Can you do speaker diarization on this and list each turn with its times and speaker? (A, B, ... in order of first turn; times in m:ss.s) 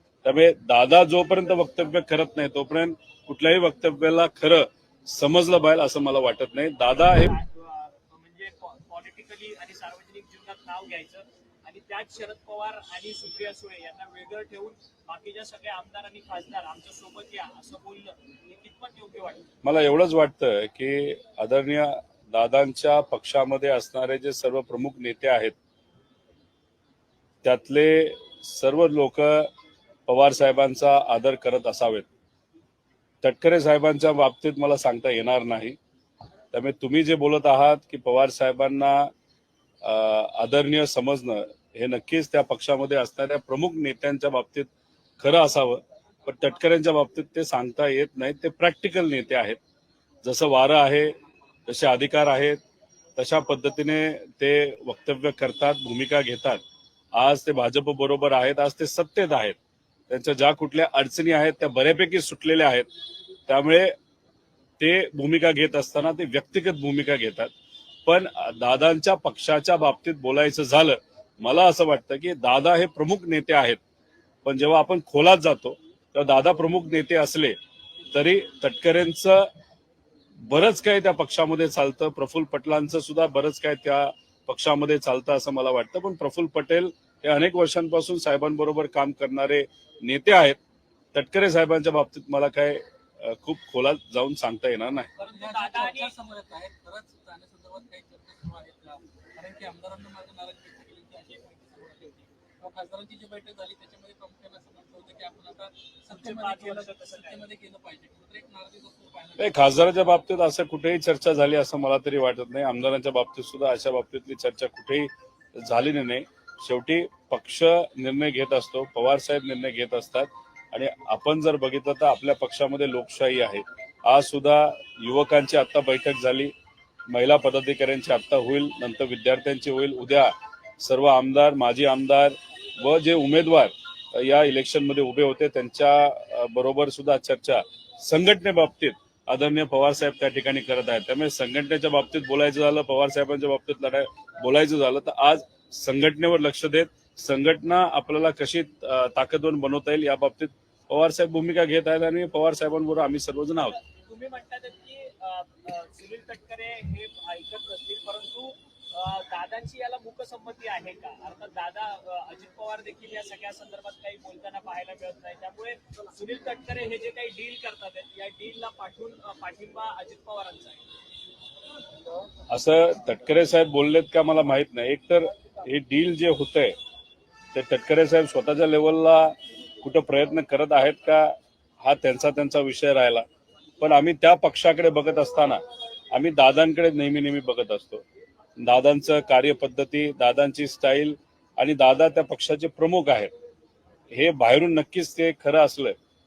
0:00.2-0:07.3 A
0:06.9-0:19.5 B
0:19.6-0:25.5 A
0:27.4-0:29.5 A
0:30.1-0:32.1 A
0:33.2-0:35.8 A
0:36.5-0:39.1 A
0:39.8-0:44.7 A
0:45.2-0:49.6 A
0:50.2-0:51.1 A
0:51.6-0:52.6 A
0:53.2-0:56.6 A
0:57.1-0:59.6 A
1:00.1-1:02.9 A
1:03.5-1:03.9 A
1:04.8-1:07.5 A
1:08.0-1:13.8 A
1:14.4-1:17.6 A
1:18.1-1:19.5 A
1:20.4-1:30.6 A
1:31.1-1:35.1 A
1:35.2-1:36.2 B
1:35.3-1:49.7 C
1:46.1-1:47.4 B
1:49.4-2:06.5 A
2:07.1-2:33.7 A
2:33.6-2:50.8 B
2:52.5-2:56.8 A
2:57.5-3:03.2 A
3:03.8-3:08.0 A
3:08.6-3:13.3 A
3:14.1-3:16.0 A